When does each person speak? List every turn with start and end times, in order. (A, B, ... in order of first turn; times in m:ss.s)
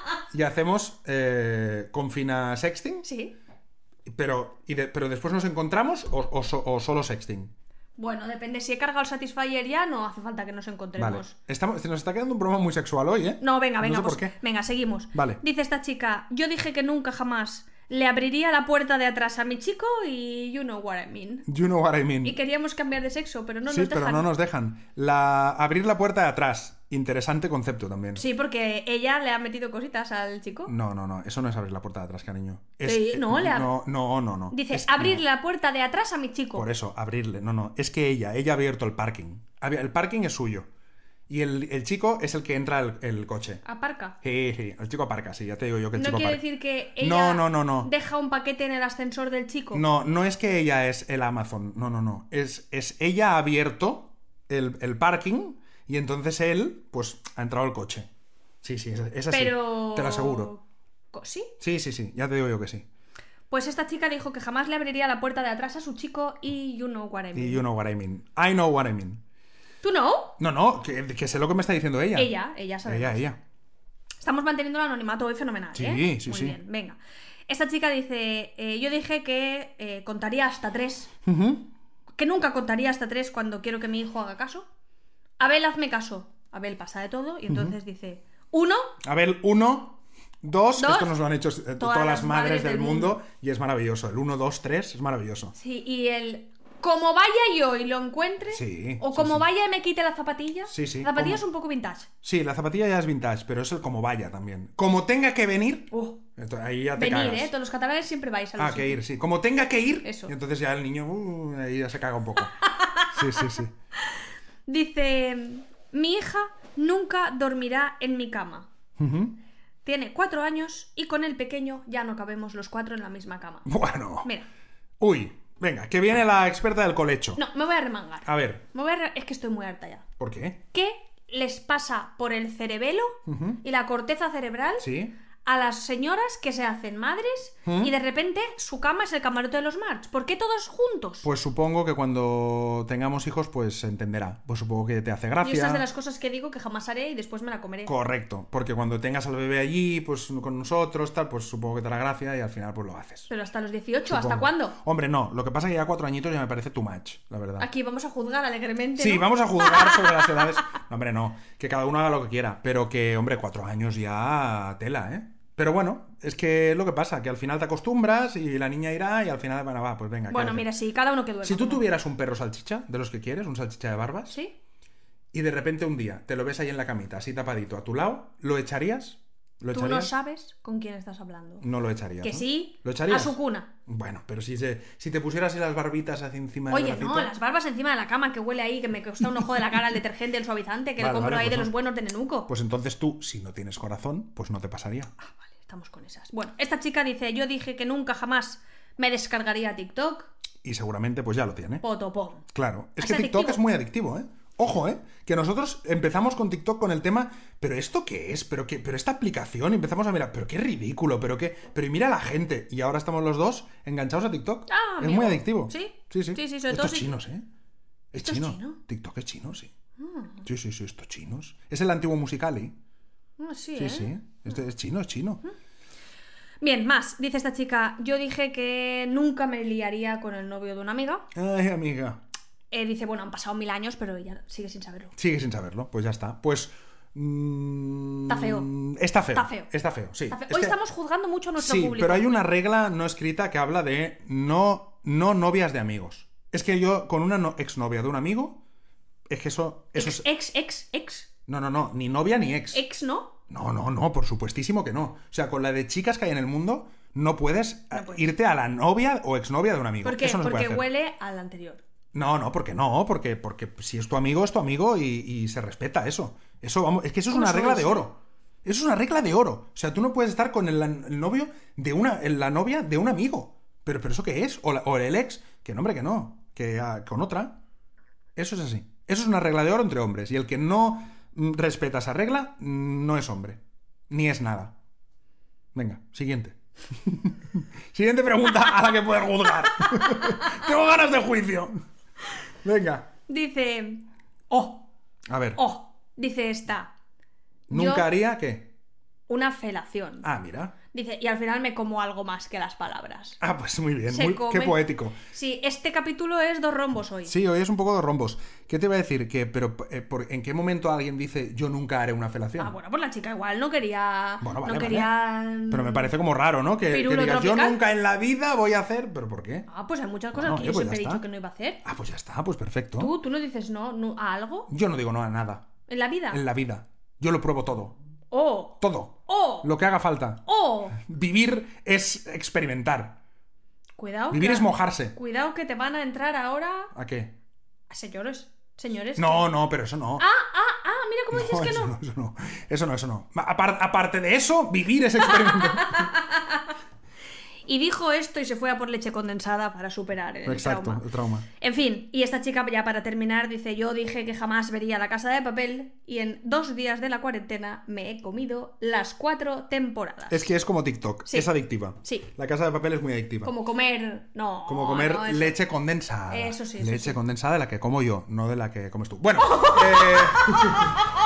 0:00.3-0:03.0 A
0:03.0-0:03.3 B
0:04.1-0:07.5 A
0:08.0-0:11.4 B
0:11.0-0:14.4 A
0:13.4-0:21.5 B
0:15.1-0:15.4 A
0:21.5-0:22.4 A
0:22.2-0:24.3 B
0:23.7-0:28.2 A
0:28.2-0:30.7 B
0:30.7-0:35.2 A
0:32.8-0:33.7 B
0:34.5-0:36.7 B
0:36.5-0:40.7 A
0:41.3-0:43.6 A
0:43.6-0:44.2 B
0:44.2-0:46.4 A
0:46.0-0:49.8 B
0:47.0-0:47.9 A
0:49.7-0:58.1 A
0:58.6-1:00.5 A
0:59.3-1:01.5 B
1:01.6-1:02.9 A
1:03.5-1:07.6 B
1:07.3-1:09.2 A
1:09.8-1:10.4 B
1:10.4-1:12.3 A
1:12.2-1:13.3 B
1:12.8-1:13.4 A
1:14.2-1:17.0 B
1:15.7-1:16.6 A
1:17.5-1:21.1 B
1:21.3-1:21.7 A
1:22.2-1:24.7 B
1:25.4-1:28.9 B
1:27.5-1:27.8 A
1:29.0-1:35.5 A
1:30.8-1:31.2 B
1:31.8-1:33.2 B
1:35.5-1:42.1 B
1:38.5-1:39.5 A
1:40.7-1:41.4 A
1:42.2-1:47.5 A
1:45.9-1:46.2 B
1:47.0-1:49.0 B
1:48.6-1:52.6 A
1:50.0-1:50.3 B
1:52.6-1:53.5 B
1:53.1-1:53.7 A
1:54.7-1:58.7 B
1:59.0-1:59.4 A
1:59.8-2:03.7 B
2:03.6-2:04.3 A
2:05.0-2:07.4 A
2:07.4-2:10.0 B
2:08.2-2:08.6 A
2:10.2-2:10.6 A
2:10.7-2:21.3 B
2:13.3-2:13.6 A
2:14.8-2:15.1 A
2:17.6-2:17.9 A
2:21.2-2:25.8 A
2:25.4-2:27.9 B
2:27.9-2:33.3 A
2:33.3-2:34.8 B
2:34.1-2:37.7 A
2:37.6-2:40.5 B
2:39.0-2:50.7 A
2:50.3-2:51.9 B
2:51.4-2:54.4 A
2:55.3-3:00.1 A
2:59.7-3:01.7 B
3:01.6-3:07.3 A
3:02.2-3:03.7 B
3:06.7-3:12.5 B
3:11.0-3:11.7 A
3:12.5-3:15.1 A
3:15.2-3:20.3 B
3:20.6-3:21.8 A
3:21.8-3:22.4 B
3:22.5-3:37.5 A
3:23.0-3:23.6 B
3:34.7-3:37.2 B
3:38.1-3:39.7 A
3:38.2-3:38.8 B
3:40.0-3:40.5 B
3:40.4-3:42.8 A
3:43.4-3:44.2 B
3:43.8-3:45.4 A
3:46.6-3:51.3 B
3:51.3-3:52.2 A
3:52.7-3:55.1 B
3:55.2-4:00.8 A
3:58.3-3:58.7 B
3:59.3-3:59.7 B
4:00.3-4:02.3 B
4:01.6-4:08.6 A
4:09.3-4:10.3 A
4:10.0-4:11.3 B
4:11.5-4:12.8 A
4:12.7-4:13.4 B
4:13.5-4:20.9 A
4:17.9-4:18.3 B
4:20.0-4:21.8 B
4:22.1-4:37.6 A
4:27.3-4:28.1 B
4:38.4-4:44.8 A
4:45.7-4:51.8 A
4:49.9-4:50.6 B
4:52.6-4:53.1 A
4:53.3-4:54.9 B
4:55.3-4:55.6 A
4:55.6-4:56.9 B
4:57.7-4:58.7 A
4:57.7-4:58.1 B
4:59.3-5:00.3 B
5:00.2-5:00.7 A
5:00.9-5:03.4 B
5:03.4-5:05.2 A
5:04.1-5:07.3 B
5:07.2-5:12.8 A
5:12.6-5:16.1 B
5:14.4-5:19.7 A
5:16.9-5:17.8 B
5:19.7-5:21.8 B
5:20.3-5:21.2 A
5:21.8-5:23.1 A
5:23.0-5:24.7 B
5:24.7-5:25.7 A
5:25.9-5:26.4 B
5:26.3-5:28.0 A
5:28.3-5:29.7 B
5:28.8-5:33.2 A
5:30.4-5:31.0 B
5:34.0-5:36.9 B
5:34.3-5:35.2 A
5:36.9-5:37.3 A
5:37.9-5:39.5 B
5:39.2-5:40.3 A
5:40.2-5:42.0 B
5:41.3-5:46.1 A
5:45.3-5:46.7 B
5:47.7-5:51.0 B
5:50.4-5:51.5 A
5:51.6-6:00.5 B
6:00.3-6:03.5 A
6:01.3-6:02.3 B
6:03.4-6:05.6 B
6:04.7-6:11.0 A
6:06.3-6:07.2 B
6:09.4-6:11.0 B